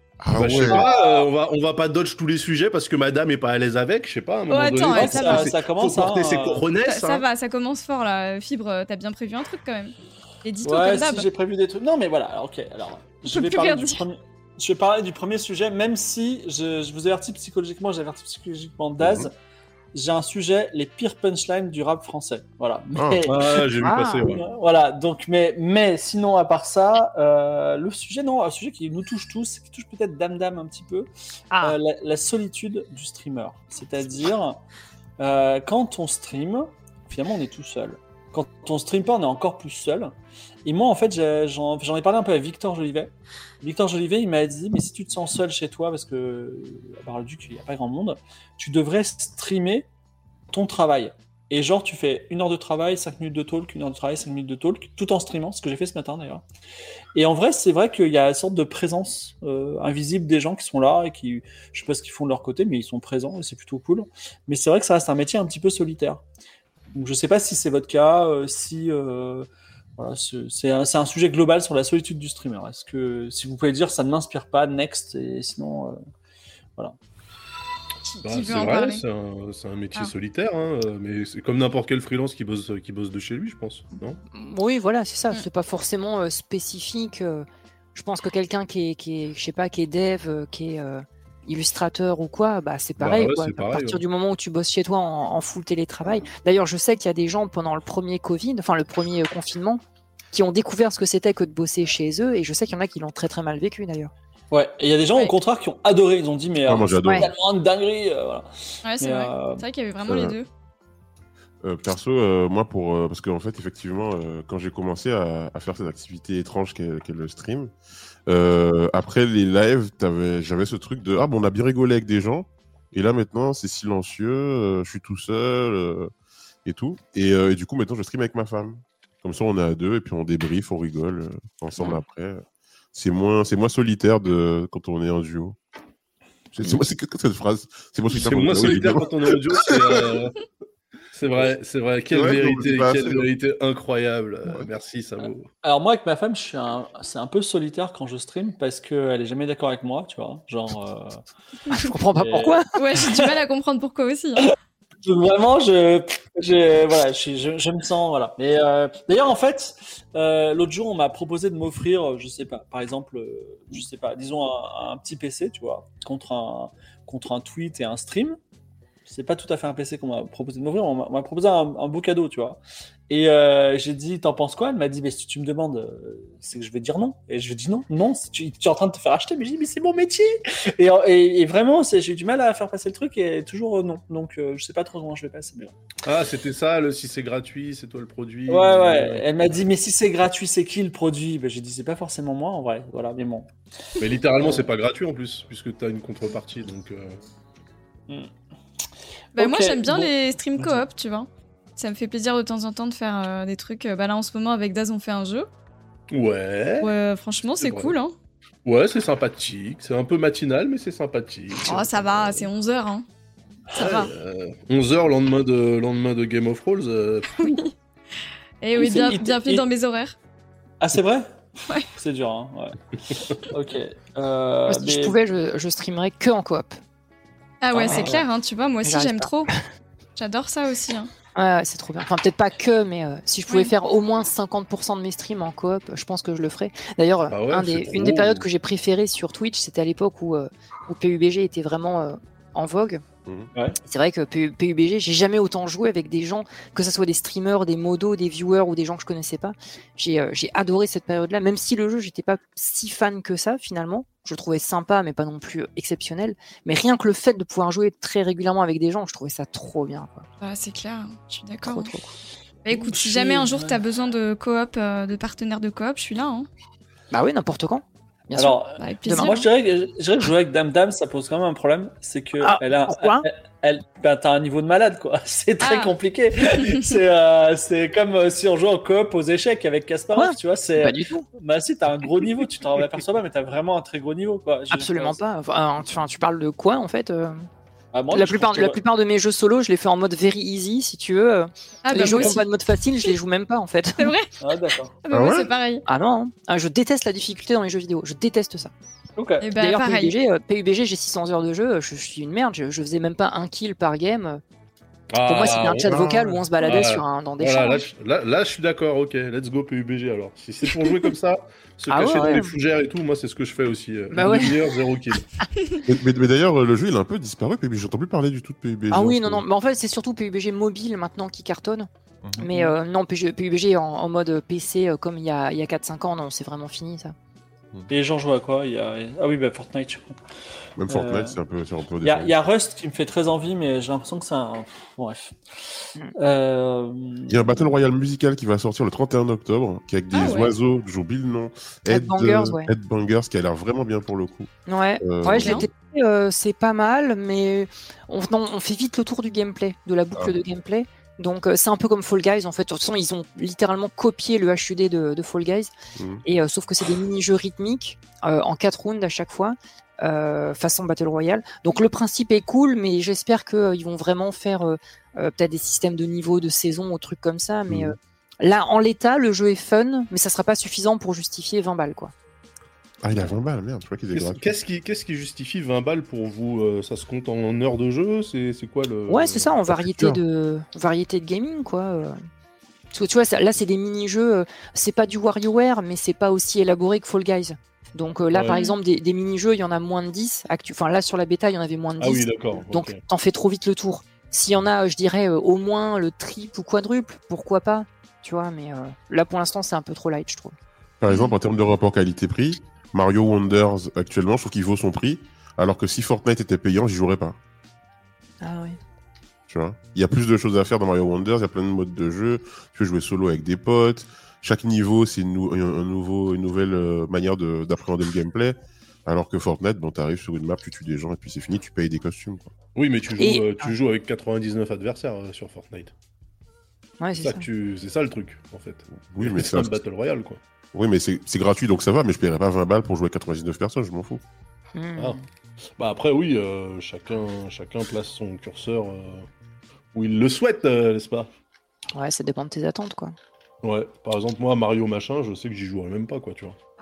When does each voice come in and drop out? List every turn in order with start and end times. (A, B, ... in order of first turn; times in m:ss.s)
0:00.2-0:00.8 A
0:00.3-0:07.2 B
0:00.7-0:01.3 C
0:04.5-0:05.5 D
0:04.9-0:06.7 C
0:06.8-0:11.3 D
0:10.6-0:19.3 C
0:13.3-0:14.0 D
0:19.0-0:19.3 A
0:19.9-0:31.1 C
0:23.0-0:23.2 A
0:23.3-0:24.5 B
0:23.8-0:24.3 E
0:31.5-0:31.8 E
0:31.6-0:34.6 C
0:35.2-0:40.1 C
0:40.6-0:49.9 C
0:50.5-0:56.4 C
0:57.2-1:06.2 C
1:06.9-1:16.0 C
1:18.1-1:19.0 D
1:18.2-1:24.2 B
1:24.3-1:39.8 E
1:33.0-1:34.0 B
1:40.3-1:44.1 E
1:44.5-1:49.6 C
1:46.7-1:47.3 A
1:48.8-1:50.5 D
1:50.1-1:50.4 A
1:51.6-1:57.7 A
1:58.3-2:06.1 A
2:06.6-2:15.6 A
2:16.5-2:20.2 A
2:18.1-2:20.4 B
2:21.1-2:25.5 B
2:22.1-2:23.3 A
2:25.6-2:31.2 C
2:31.7-2:32.8 E
2:32.2-2:33.3 C
2:32.8-2:34.5 D
2:35.0-2:48.4 C
2:49.1-3:05.8 C
3:06.0-3:09.7 B
3:08.5-3:13.5 C
3:14.0-3:17.2 B
3:14.4-3:14.7 C
3:19.4-3:25.5 D
3:19.4-3:20.8 C
3:26.1-3:26.9 B
3:26.8-3:28.1 D
3:27.6-3:28.0 B
3:28.6-3:32.5 B
3:31.6-3:33.1 D
3:33.8-3:34.1 D
3:33.8-3:37.7 B
3:37.4-3:37.7 D
3:38.6-3:40.2 D
3:38.8-3:39.6 C
3:40.8-3:45.2 C
3:44.7-3:46.8 E
3:47.6-3:49.5 D
3:47.7-3:48.2 C
3:48.8-3:49.6 E
3:50.2-3:51.1 D
3:51.4-4:03.0 E
3:57.3-3:58.4 B
4:03.8-4:20.3 E
4:20.4-4:21.9 D
4:21.6-4:22.1 E
4:22.6-4:26.5 D
4:22.7-4:23.8 C
4:27.1-4:29.5 E
4:28.4-4:45.2 C
4:28.8-4:29.5 D
4:32.4-4:33.3 E
4:35.6-4:35.9 D
4:40.1-4:41.3 E
4:44.7-4:47.5 E
4:47.9-4:48.8 C
4:48.1-4:54.2 E
4:51.8-4:52.5 D
4:52.1-4:52.4 C
4:54.0-4:54.3 D
4:54.4-4:54.9 C
4:55.0-4:55.8 D
4:55.1-4:55.5 A
4:55.9-4:58.7 E
4:59.2-4:59.5 C
4:59.4-5:00.1 D
4:59.6-5:04.4 E
5:05.1-5:15.3 B
5:05.2-5:07.8 E
5:11.9-5:12.5 E
5:14.1-5:14.7 E
5:15.8-5:19.4 A
5:18.9-5:27.2 E
5:22.5-5:22.8 C
5:27.9-5:30.2 C
5:30.8-5:32.4 A
5:30.9-5:31.4 C
5:32.0-5:35.4 C
5:36.2-5:37.7 C
5:37.3-5:45.7 A
5:40.1-5:40.5 D
5:41.9-5:42.7 E
5:44.7-5:55.7 E
5:45.4-5:45.7 D
5:56.0-5:56.2 A
5:56.2-6:12.1 E
6:07.7-6:08.0 A
6:13.0-6:14.5 A
6:14.1-6:19.6 B
6:19.1-6:22.2 E
6:19.7-6:20.2 A
6:22.9-6:40.6 E
6:28.3-6:28.6 B
6:32.0-6:33.0 B
6:41.0-6:47.4 A
6:48.4-6:48.8 E
6:49.5-7:02.5 A
7:02.8-7:05.9 B
7:03.2-7:03.7 E
7:07.0-7:07.5 E
7:07.2-7:10.4 B
7:09.0-7:09.8 A
7:10.7-7:14.2 A
7:14.8-7:15.2 E
7:15.8-7:19.3 B
7:19.9-7:21.3 B
7:21.9-7:23.2 E
7:23.6-7:26.6 B